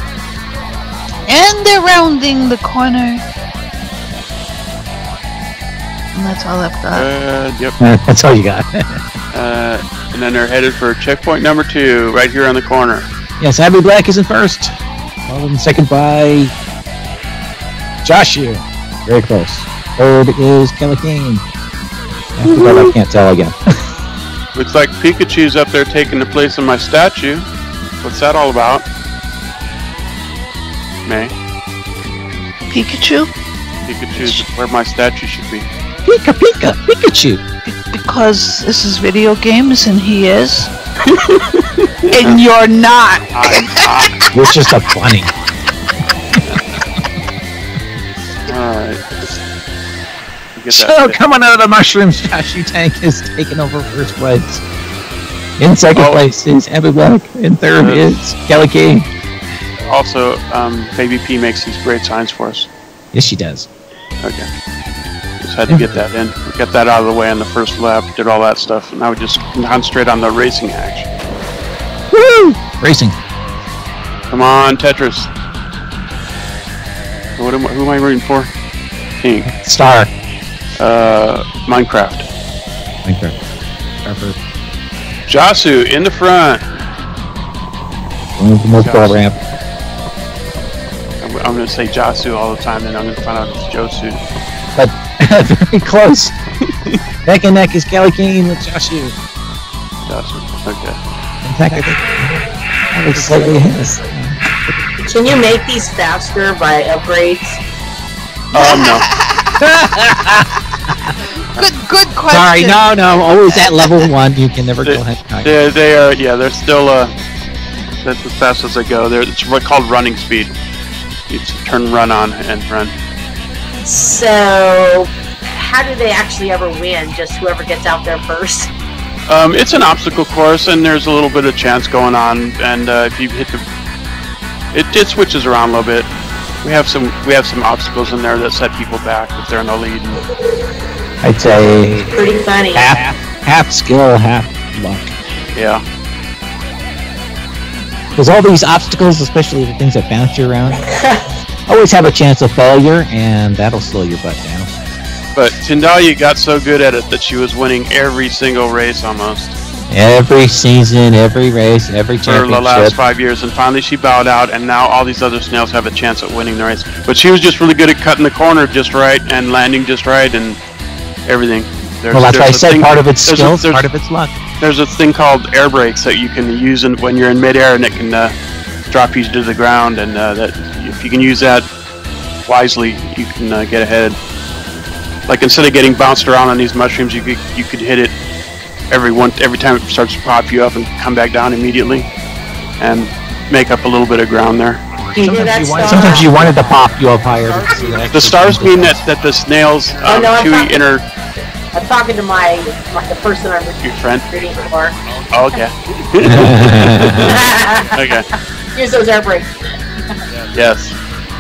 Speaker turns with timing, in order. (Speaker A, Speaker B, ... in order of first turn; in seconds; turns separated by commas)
Speaker A: 1.3-3.2, Speaker A: 6.1-7.1, Speaker B: 6.9-7.8, Speaker C: 7.8-9.0, Speaker B: 9.3-13.1, Speaker C: 13.4-14.7, Speaker C: 15.3-16.5, Speaker C: 18.0-21.4, Speaker C: 22.4-23.6, Speaker B: 22.6-22.8, Speaker B: 24.5-27.5, Speaker B: 28.0-28.8, Speaker B: 31.1-31.3, Speaker A: 32.7-33.3, Speaker B: 33.8-35.7, Speaker C: 36.0-37.4, Speaker A: 37.6-40.7, Speaker B: 41.2-41.5, Speaker B: 42.1-42.4, Speaker A: 42.1-44.0, Speaker B: 43.3-44.1, Speaker C: 44.3-45.3, Speaker B: 48.5-49.0, Speaker B: 50.5-51.2, Speaker C: 50.7-54.6, Speaker C: 55.6-59.0, Speaker B: 55.9-56.2, Speaker B: 57.8-58.2, Speaker B: 59.9-62.7, Speaker C: 63.1-63.7, Speaker B: 64.2-64.5, Speaker B: 65.4-71.1, Speaker C: 72.1-73.2, Speaker B: 74.3-75.3, Speaker B: 77.4-78.5, Speaker B: 79.2-79.5, Speaker C: 79.5-80.1, Speaker B: 80.8-82.3, Speaker C: 83.0-83.3, Speaker C: 84.0-84.4, Speaker B: 85.3-86.7, Speaker C: 88.4-89.4, Speaker B: 88.8-89.2, Speaker B: 91.2-94.2, Speaker C: 94.8-96.3, Speaker B: 96.6-97.0, Speaker C: 97.2-99.2, Speaker B: 100.0-101.0, Speaker C: 101.4-104.8, Speaker D: 103.1-104.0, Speaker D: 105.0-107.6, Speaker A: 108.5-109.7, Speaker B: 108.5-109.0, Speaker C: 109.6-110.5, Speaker A: 111.5-114.1, Speaker C: 112.3-115.5, Speaker B: 114.8-117.1, Speaker B: 118.0-120.5, Speaker B: 121.3-122.9, Speaker D: 123.8-128.7, Speaker B: 129.3-133.6, Speaker B: 134.7-136.1, Speaker B: 136.6-140.2, Speaker C: 141.2-145.1, Speaker D: 142.0-143.0, Speaker B: 145.5-145.8, Speaker C: 148.2-150.8, Speaker D: 150.9-151.2, Speaker C: 151.7-154.7, Speaker B: 155.3-159.6, Speaker C: 159.9-162.9, Speaker B: 162.2-170.6, Speaker B: 171.2-173.8, Speaker C: 172.1-174.4, Speaker B: 174.6-178.3, Speaker B: 178.9-181.7, Speaker B: 182.5-184.2, Speaker B: 185.3-188.1, Speaker B: 188.9-192.1, Speaker B: 192.8-194.8, Speaker C: 195.1-199.0, Speaker D: 195.1-196.5, Speaker B: 195.9-196.5, Speaker B: 197.4-201.0, Speaker D: 200.0-200.8, Speaker D: 201.7-205.0, Speaker B: 203.8-204.2, Speaker B: 205.3-207.3, Speaker C: 206.2-207.3, Speaker D: 207.2-208.2, Speaker B: 207.9-208.2, Speaker D: 208.7-210.2, Speaker B: 210.5-211.0